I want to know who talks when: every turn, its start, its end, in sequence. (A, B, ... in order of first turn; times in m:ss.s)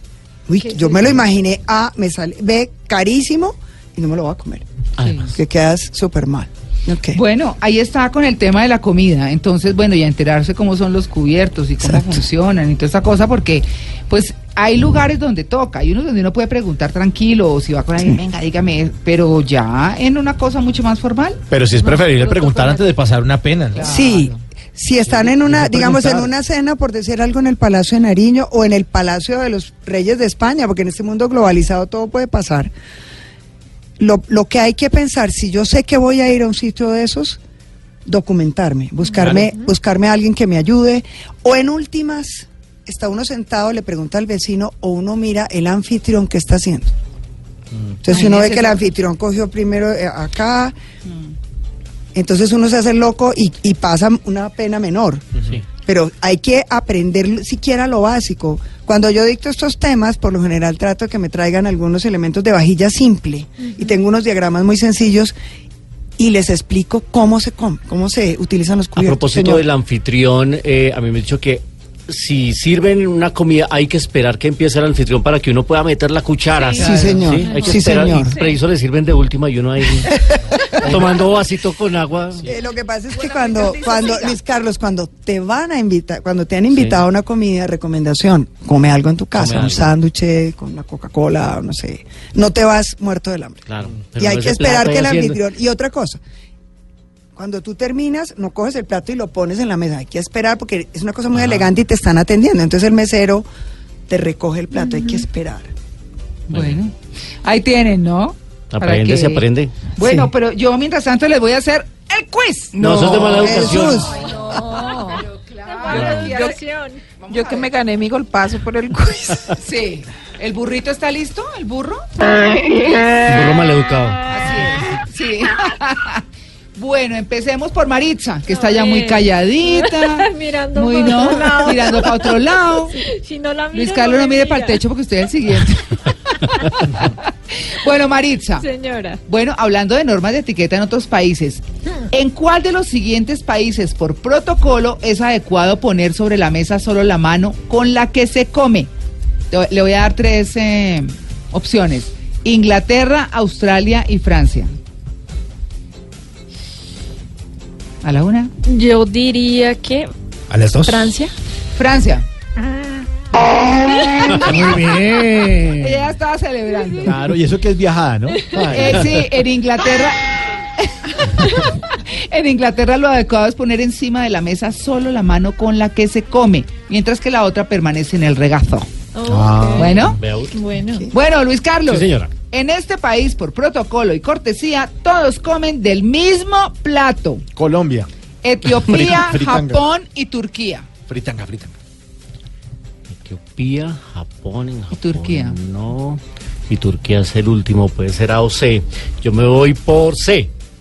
0:00.5-0:04.6 A
0:00.7-0:01.1 B
0:05.0-0:05.3 C
0:05.0-0:05.3 B
0:05.3-0:07.2 A
0:07.1-0:22.8 B
0:11.8-0:12.2 A
0:21.5-0:24.0 D
0:23.7-0:24.4 B
0:23.8-0:32.7 A
0:25.6-0:26.1 D
0:34.0-0:37.4 A
0:38.0-0:46.9 A
0:39.2-0:39.4 D
0:48.0-0:50.7 A
0:48.1-0:48.8 B
0:52.1-0:55.2 A
0:55.8-1:05.3 A
1:06.2-1:09.6 A
1:09.0-1:22.4 C
1:16.6-1:17.2 B
1:16.8-1:18.3 A
1:17.5-1:18.3 E
1:20.1-1:21.0 A
1:22.4-1:33.6 A
1:23.1-1:24.4 B
1:26.7-1:27.0 C
1:29.4-1:29.9 C
1:33.7-1:35.4 C
1:34.2-1:36.2 A
1:37.3-1:43.4 A
1:41.3-1:41.7 C
1:44.1-1:45.7 A
1:46.5-1:52.8 B
1:46.5-1:46.8 C
1:48.7-1:49.7 C
1:50.0-1:50.3 A
1:52.7-1:53.6 F
1:52.8-1:54.2 C
1:53.4-1:54.4 A
1:54.3-1:56.6 B
1:54.4-1:57.0 E
1:55.9-1:56.6 G
1:57.2-1:57.7 B
1:57.3-1:59.5 G
1:59.6-2:02.0 B
2:03.2-2:04.2 C
2:04.3-2:06.2 B
2:06.8-2:13.0 B
2:08.5-2:14.8 E
2:13.7-2:18.7 B
2:18.6-2:19.2 E
2:19.2-2:28.9 B
2:29.5-2:34.7 B
2:38.0-2:38.5 B
2:38.6-2:40.1 E
2:40.5-2:41.1 F
2:40.8-2:41.3 E
2:41.7-2:42.2 B
2:44.0-2:44.4 E
2:44.3-2:46.1 F
2:45.8-2:47.2 B
2:47.0-2:49.0 D
2:48.5-2:49.2 C
2:48.7-2:50.2 B
2:50.8-2:58.9 B
2:59.1-3:01.1 E
2:59.2-3:00.0 D
2:59.8-3:00.2 B
3:00.0-3:00.6 C
3:01.1-3:07.4 B
3:01.9-3:02.3 C
3:07.6-3:08.1 D
3:08.4-3:10.8 B
3:08.6-3:09.8 D
3:11.1-3:11.7 D
3:13.2-3:20.5 C
3:14.9-3:15.6 B